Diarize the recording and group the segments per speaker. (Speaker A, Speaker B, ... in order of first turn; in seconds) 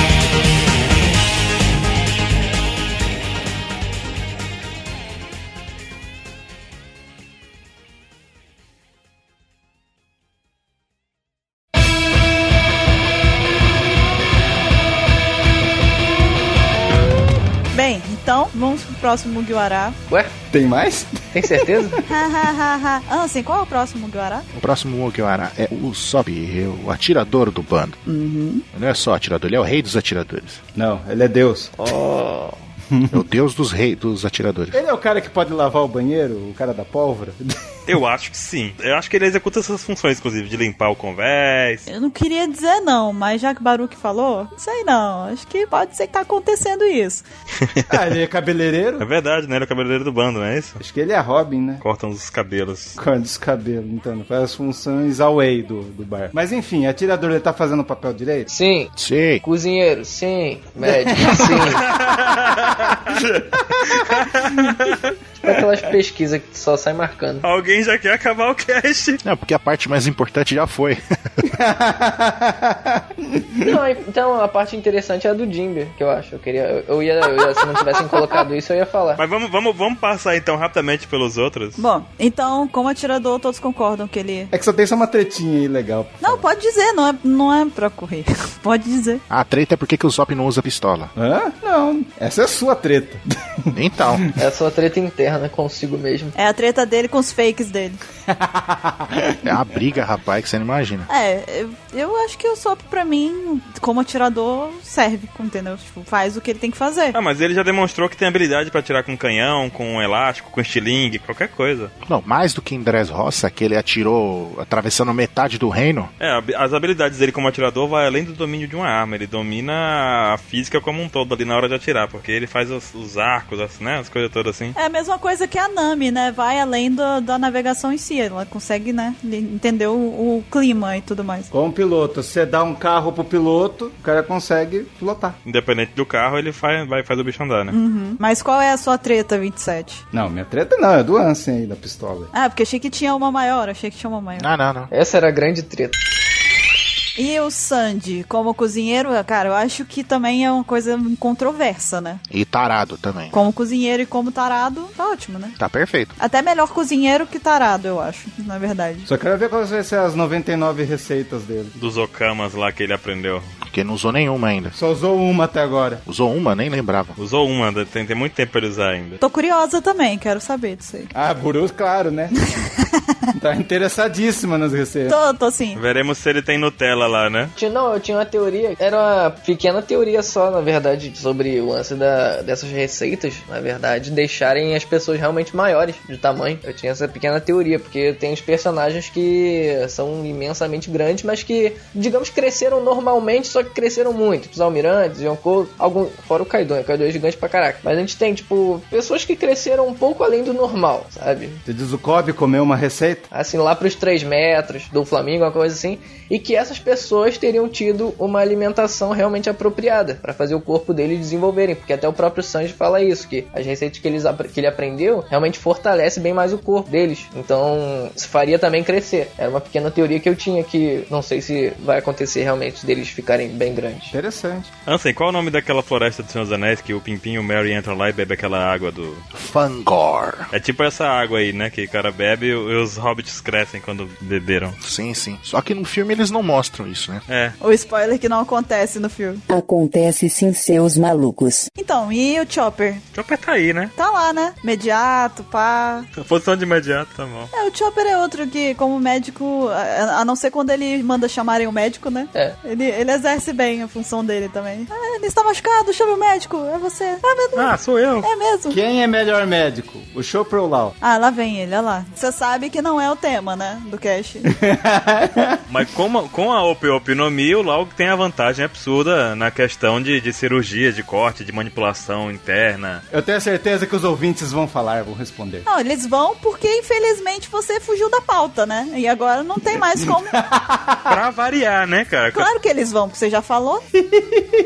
Speaker A: 17.7-20.0, 22.1-24.5, 28.1-28.6, 41.9-47.2, 81.8-84.5, 86.2-89.2, 96.4-98.0, 101.1-107.2, 124.8-131.5, 137.7-140.0, 142.3-144.5, 147.2-152.2, 153.3-155.6, 156.2-159.1, 169.2-171.1, 175.1-175.8, 237.6-239.4, 241.8-243.0, 244.0-246.1, 247.5-258.8, 261.0-264.5, 275.7-280.4, 282.3-283.9
Speaker B: 20.1-20.4, 21.3-22.0, 31.8-32.6, 58.5-61.9, 65.4-67.5, 73.6-79.2, 94.4-96.3, 144.9-146.0, 177.6-201.6, 203.3-224.1
Speaker C: 20.5-22.0, 30.8-31.7, 32.9-33.2, 34.7-37.8, 47.9-49.1, 50.8-51.8, 53.0-58.5, 60.8-61.8, 63.1-64.0, 71.4-73.6, 84.5-86.5, 91.2-94.2, 98.3-99.4, 131.5-135.4, 140.1-142.3, 159.1-161.7, 164.8-166.0, 171.1-172.7, 173.3-175.2, 201.7-203.3, 224.1-224.7, 258.7-260.9, 264.5-265.6, 273.1-275.6, 280.0-281.2, 284.1-284.4
Speaker D: 24.6-28.0, 28.7-30.6, 33.1-34.8, 59.0-59.4, 69.2-71.5, 89.3-91.1, 93.7-94.3, 99.4-101.1, 112.0-116.1, 144.4-144.9, 152.3-153.4, 155.6-156.1, 163.7-164.8, 166.1-167.2, 229.3-230.5, 234.8-237.2
Speaker E: 37.9-41.9, 47.6-47.9, 49.0-50.8, 51.8-53.0, 61.7-65.1, 67.4-69.2, 79.2-81.8, 107.1-111.9, 116.2-124.8, 135.4-137.8, 161.8-163.5, 167.2-169.2, 175.8-177.5, 224.9-229.2, 230.5-234.8, 237.3-237.6, 243.2-243.9, 246.2-247.5, 257.6-258.3, 265.7-273.0, 281.1-282.5
Speaker F: 239.5-241.7